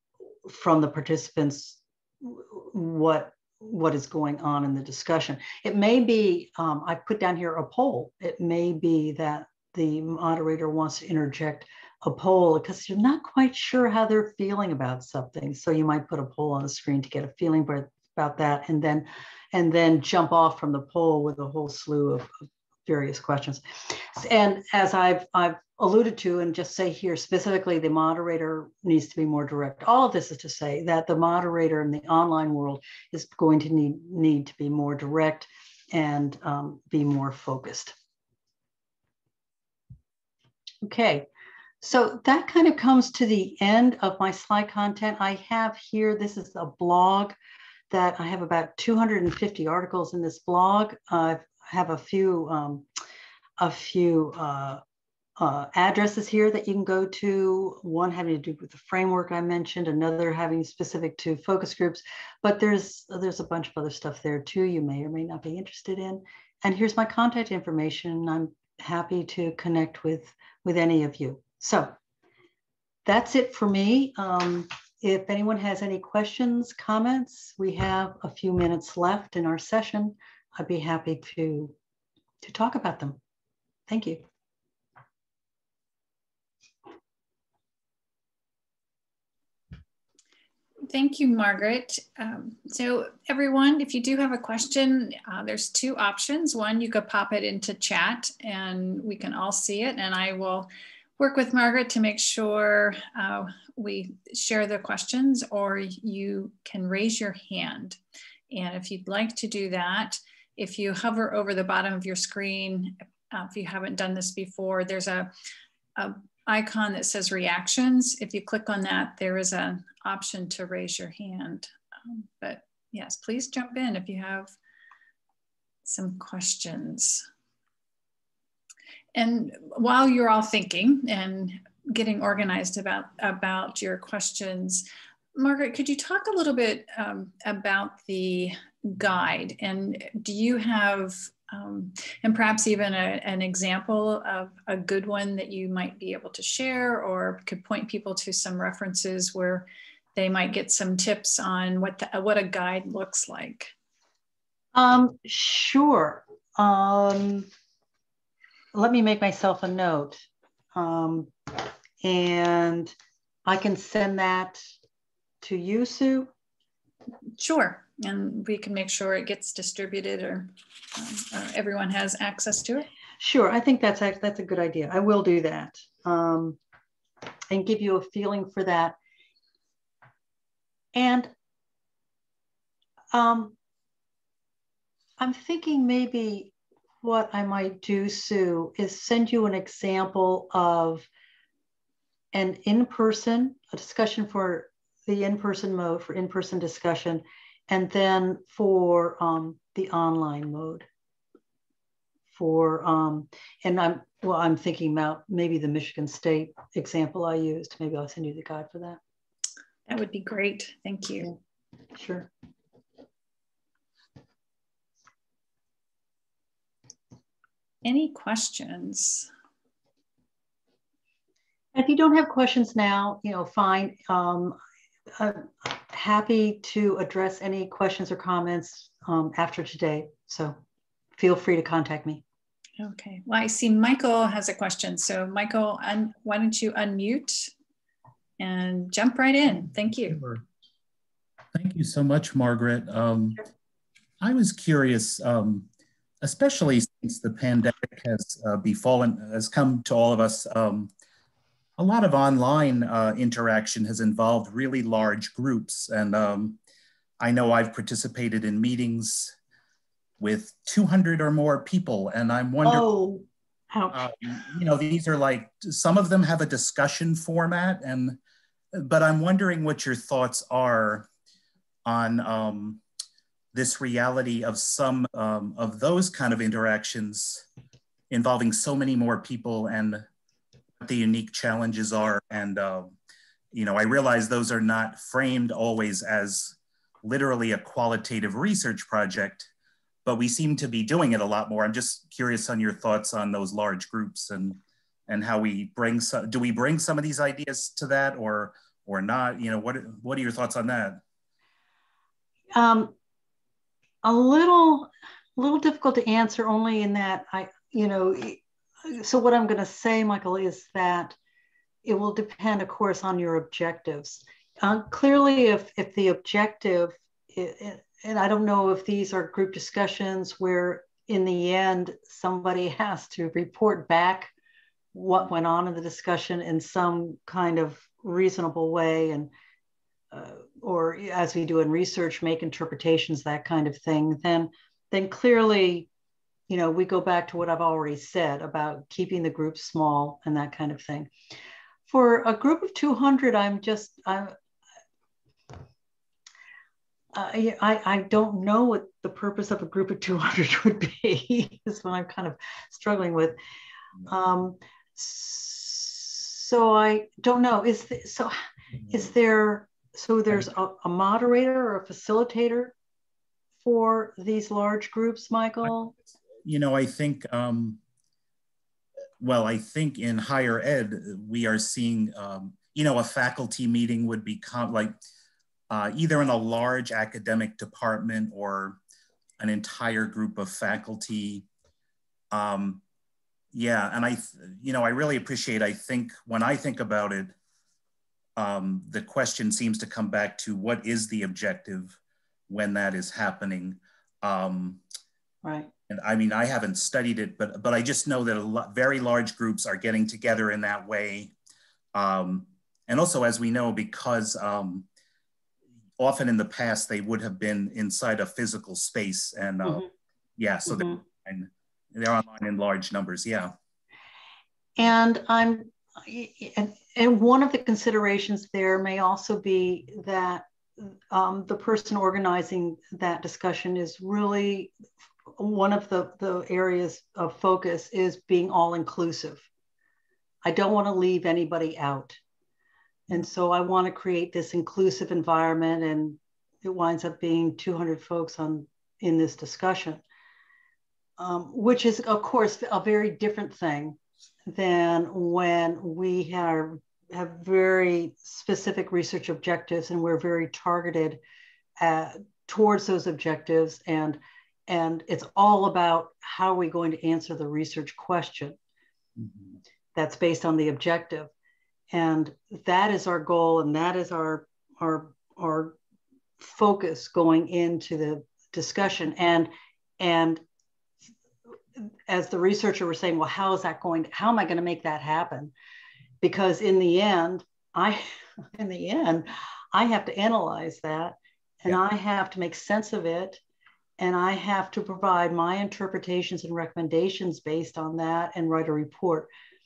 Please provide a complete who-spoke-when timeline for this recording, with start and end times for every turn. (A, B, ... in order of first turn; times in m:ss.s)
0:00.4-0:37.9 A
0:40.8-0:41.3 A
0:41.8-0:47.4 A
0:47.9-0:52.9 A
0:53.6-0:54.8 A
0:55.4-1:12.0 A
1:13.0-1:21.8 A
1:22.4-1:23.2 A
1:23.9-1:24.2 A
1:30.9-1:48.0 B
1:48.5-1:55.3 B
1:56.0-2:04.6 B
2:05.8-2:07.3 B
2:09.2-2:33.7 B
2:34.8-2:37.5 A
2:38.7-2:40.2 A
2:40.7-2:42.9 A
2:43.4-2:44.6 A
2:45.4-2:46.3 A
2:47.4-2:52.9 B
2:53.2-2:56.6 A
2:57.5-2:59.0 A
3:00.9-3:01.3 A
3:03.1-3:03.6 A
3:05.2-3:11.1 A
3:12.3-3:20.9 A
3:22.3-3:29.0 A
3:29.9-3:31.3 B
3:31.9-3:32.3 A
3:37.8-3:39.3 B
3:41.8-3:44.6 A
3:45.2-3:50.6 A
3:51.2-3:52.2 A
3:52.8-3:57.5 B
3:58.4-4:00.2 B
4:00.2-4:00.4 C
4:01.5-4:03.4 C
4:04.2-4:05.7 C
4:06.2-4:10.9 C
4:11.8-4:16.6 C
4:17.2-4:19.4 C
4:20.2-4:22.8 C
4:22.6-4:24.2 A
4:23.9-4:28.2 C
4:28.7-4:31.1 C
4:31.8-4:32.8 C
4:33.5-4:37.5 C
4:38.1-4:40.0 C
4:40.8-4:43.0 C
4:43.5-4:49.5 C
4:50.0-5:01.0 C
5:02.5-5:02.9 A
5:04.0-5:11.2 A
5:11.8-5:24.3 A
5:24.9-5:29.3 A
5:30.1-5:35.9 A
5:36.5-5:41.1 A
5:41.9-5:44.3 A
5:47.1-5:53.4 A
5:54.1-5:58.4 A
5:58.9-6:02.8 A
6:03.6-6:05.9 A
6:06.4-6:07.8 C
6:09.2-6:15.0 C
6:15.7-6:18.8 C
6:19.4-6:21.5 C
6:22.3-6:22.8 C
6:23.5-6:27.4 C
6:28.4-6:32.0 C
6:32.5-6:34.8 C
6:35.4-6:35.7 A
6:35.9-6:41.3 C
6:41.9-6:44.9 C
6:46.0-6:49.9 C
6:50.4-6:53.5 C
6:54.8-7:04.7 A
7:05.4-7:09.5 A
7:10.4-7:12.2 A
7:13.1-7:20.0 A
7:21.2-7:31.2 A
7:31.8-7:38.6 A
7:40.0-7:41.3 A
7:41.9-7:45.8 A
7:46.4-7:50.4 A
7:51.8-7:55.5 A
7:56.2-8:03.4 A
8:04.0-8:09.3 A